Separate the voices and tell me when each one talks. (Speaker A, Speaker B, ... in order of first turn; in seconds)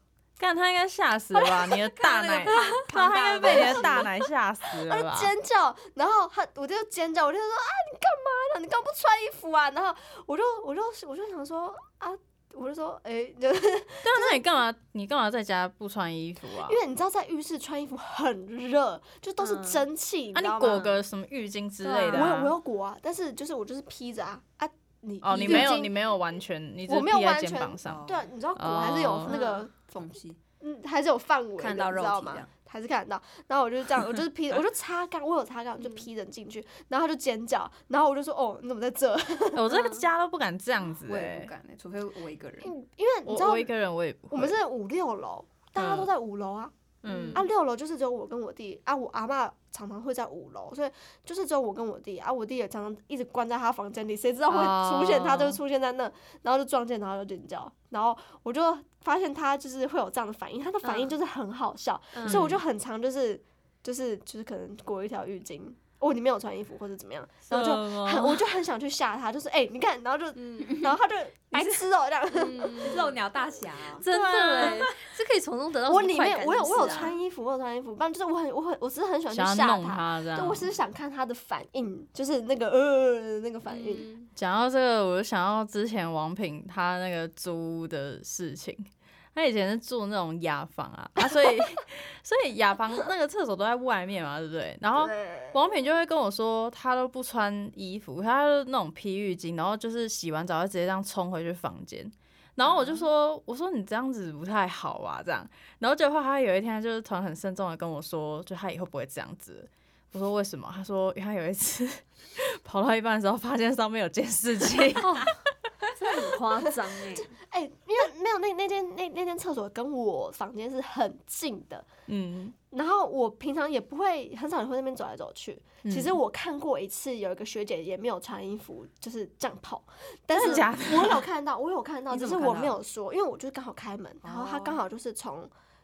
Speaker A: 0.4-5.3, 14.0-16.8, 20.3-22.5, 25.2-28.0, 28.6-29.3, 39.5-41.5, 43.2-44.6, 45.8-46.1, 47.0-47.4, 54.5-55.6, 62.2-62.6, 67.5-68.4, 74.0-74.9, 79.3-80.7, 84.3-115.3, 122.1-122.5, 125.8-126.2, 130.4-131.2
Speaker B: 1.9-4.1, 27.8-28.2, 29.7-30.4, 31.6-32.5, 41.0-42.7, 70.7-70.9, 71.5-71.9, 72.8-74.0, 132.1-132.8, 134.2-134.8
Speaker C: 3.4-4.0, 4.8-14.4, 16.5-20.9, 22.1-26.0, 26.9-29.7, 30.6-39.7, 42.6-43.7, 44.3-46.7, 47.3-73.0, 75.9-84.1, 95.0-95.6, 117.1-121.9, 122.7-135.5
Speaker D: 19.4-19.8, 21.8-22.3, 29.3-29.7, 35.8-36.0, 39.7-40.0, 47.0-47.4, 60.8-61.1, 62.1-62.5, 70.3-70.8, 72.3-73.1, 74.0-77.1, 83.7-84.3, 115.0-115.3, 116.0-117.3